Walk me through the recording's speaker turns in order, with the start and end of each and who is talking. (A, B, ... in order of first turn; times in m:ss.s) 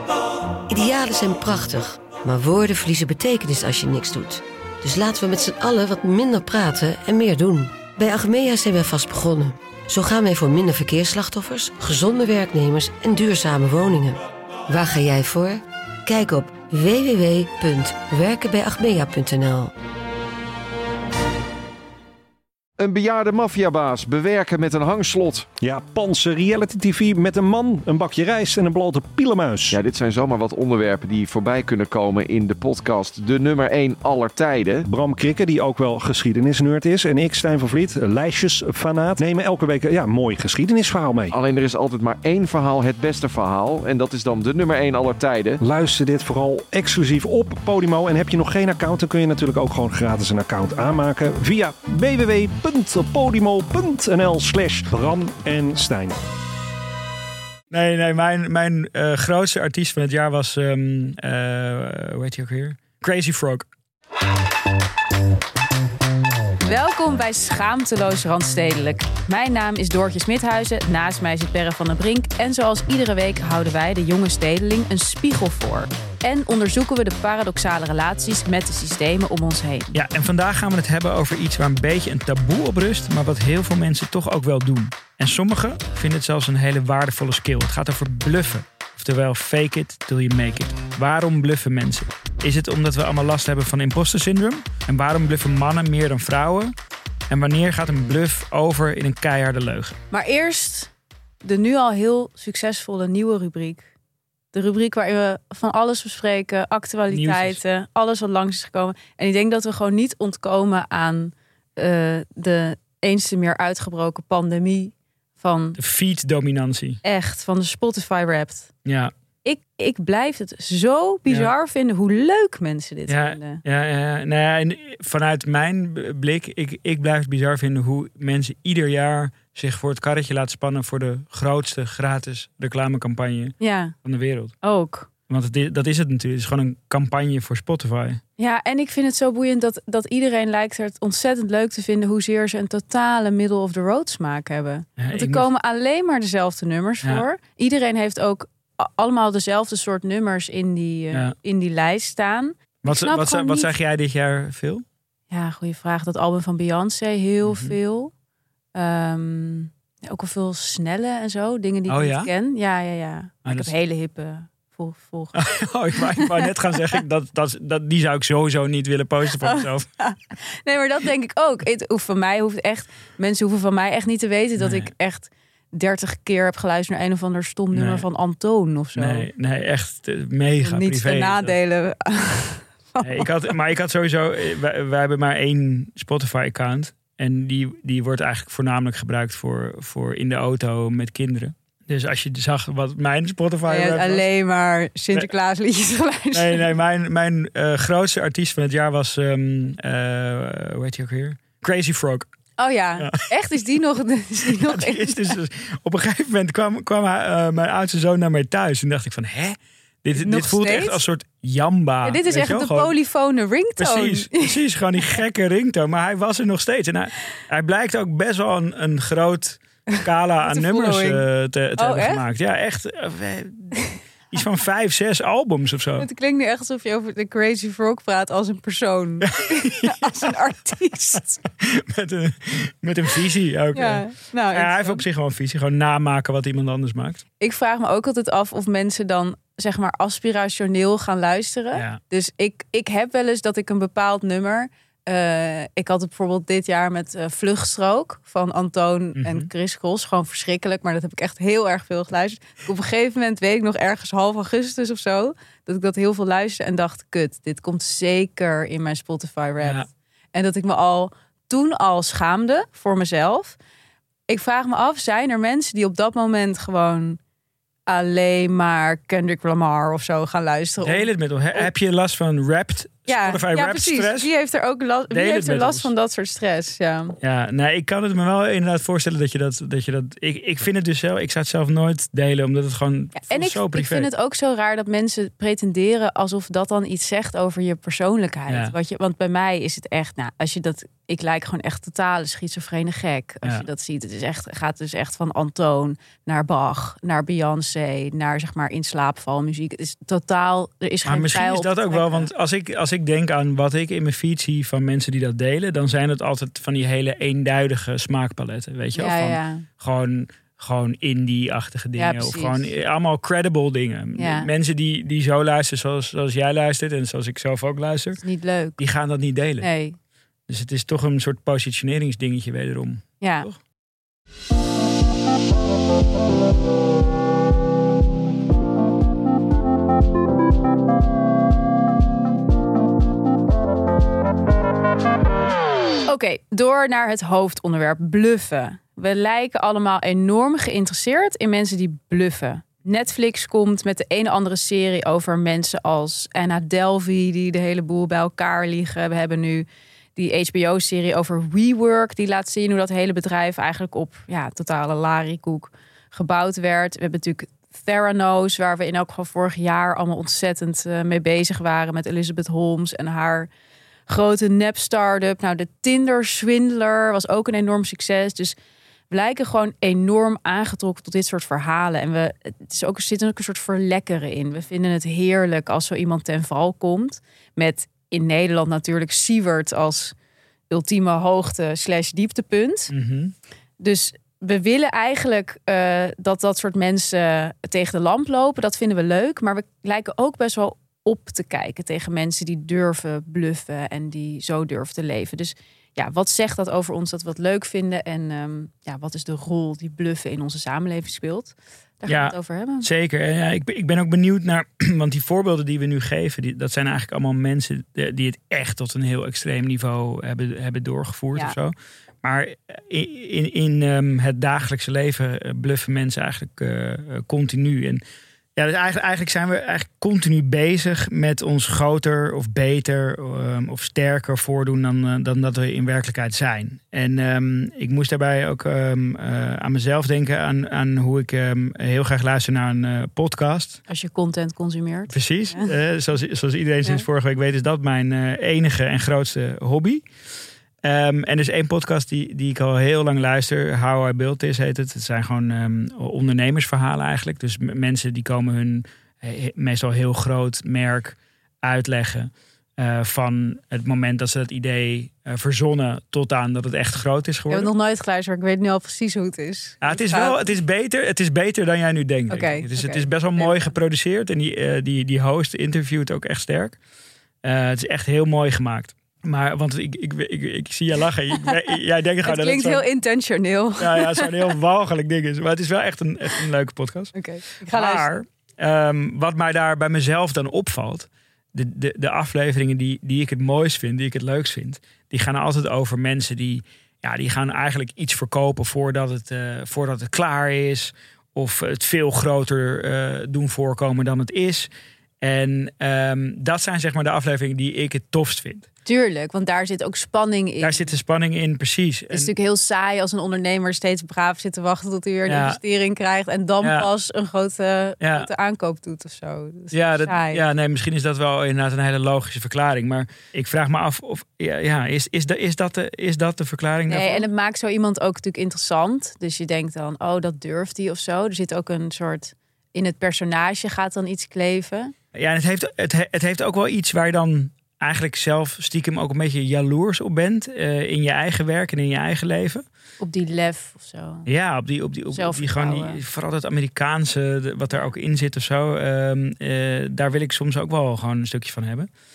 0:00.7-0:19.7 A
0:22.8-0:25.5 B
0:25.6-0:29.8 C
0:29.7-0:34.8 B
0:34.9-0:41.3 C
0:41.3-0:45.6 B
0:45.6-0:56.2 C
0:57.7-1:03.7 D
1:06.6-1:19.9 E
1:19.9-1:36.7 D
1:37.3-1:40.0 D
1:40.1-1:40.9 E
1:41.4-1:43.9 E
1:44.5-1:55.8 E
1:47.1-1:47.6 D
1:55.8-1:57.0 D
1:57.0-1:58.7 E
1:58.8-1:59.1 D
1:59.4-2:03.6 E
2:03.1-2:14.5 D
2:13.6-2:13.9 E
2:14.6-2:15.1 E
2:15.3-2:18.2 D
2:18.4-2:33.7 E
2:25.0-2:25.5 D
2:32.8-2:34.8 D
2:35.3-2:38.1 E
2:37.4-2:37.8 D
2:38.7-2:46.9 E
2:41.9-2:42.3 D
2:43.4-2:43.7 D
2:45.3-2:49.9 D
2:49.4-2:59.3 E
2:54.6-2:54.9 D
2:57.7-2:58.0 D
2:58.9-3:01.5 D
3:00.6-3:03.5 E
3:03.0-3:14.2 D
3:13.7-3:16.7 E
3:16.3-3:22.3 D
3:22.6-3:25.4 E
3:23.0-3:23.3 D
3:24.4-3:32.9 D
3:30.2-3:31.0 E
3:32.0-3:34.6 E
3:33.8-3:43.7 D
3:39.9-3:42.2 E
3:44.3-3:46.1 D
3:46.0-3:51.4 E
3:49.2-3:50.3 D
3:51.5-3:57.2 D
3:53.7-3:55.0 E
3:57.4-4:23.6 E
4:01.7-4:02.0 D
4:09.2-4:09.5 D
4:19.6-4:19.9 D
4:24.3-4:27.2 E
4:27.9-4:31.7 E
4:30.8-4:34.3 D
4:33.1-4:37.2 E
4:35.1-4:35.9 D
4:37.2-4:44.1 D
4:43.1-5:02.3 E
4:48.5-4:48.7 D
5:01.0-5:18.2 D
5:08.9-5:09.6 E
5:11.9-5:12.7 E
5:14.2-5:14.5 E
5:18.2-5:18.8 E
5:18.8-5:19.7 D
5:19.6-5:20.0 E
5:20.5-5:23.6 D
5:23.2-5:23.5 E
5:36.1-6:03.5 E
6:04.1-6:08.6 E
6:09.1-6:20.1 E
6:20.7-6:22.9 E
6:22.9-6:23.3 D
6:23.8-6:42.9 E
6:42.1-6:58.0 D
6:58.6-7:13.8 D
7:13.9-7:15.7 E
7:15.1-7:20.0 D
7:20.8-7:37.7 D
7:37.5-7:40.5 E
7:39.8-7:46.8 D
7:42.3-7:43.7 E
7:47.4-7:52.8 D
7:51.3-7:51.6 E
7:52.2-7:54.5 E
7:53.8-7:57.1 D
7:57.1-7:58.1 E
7:57.6-8:14.7 D
8:15.2-8:18.7 D
8:18.8-8:20.9 E
8:20.6-8:22.3 D
8:22.1-8:30.4 E
8:25.3-8:25.6 D
8:26.6-8:26.9 D
8:28.0-8:28.3 D
8:29.7-8:37.3 D
8:36.9-8:44.9 E
8:45.1-8:52.6 D
8:53.0-8:54.3 E
8:54.2-9:01.9 D
8:55.1-8:56.0 E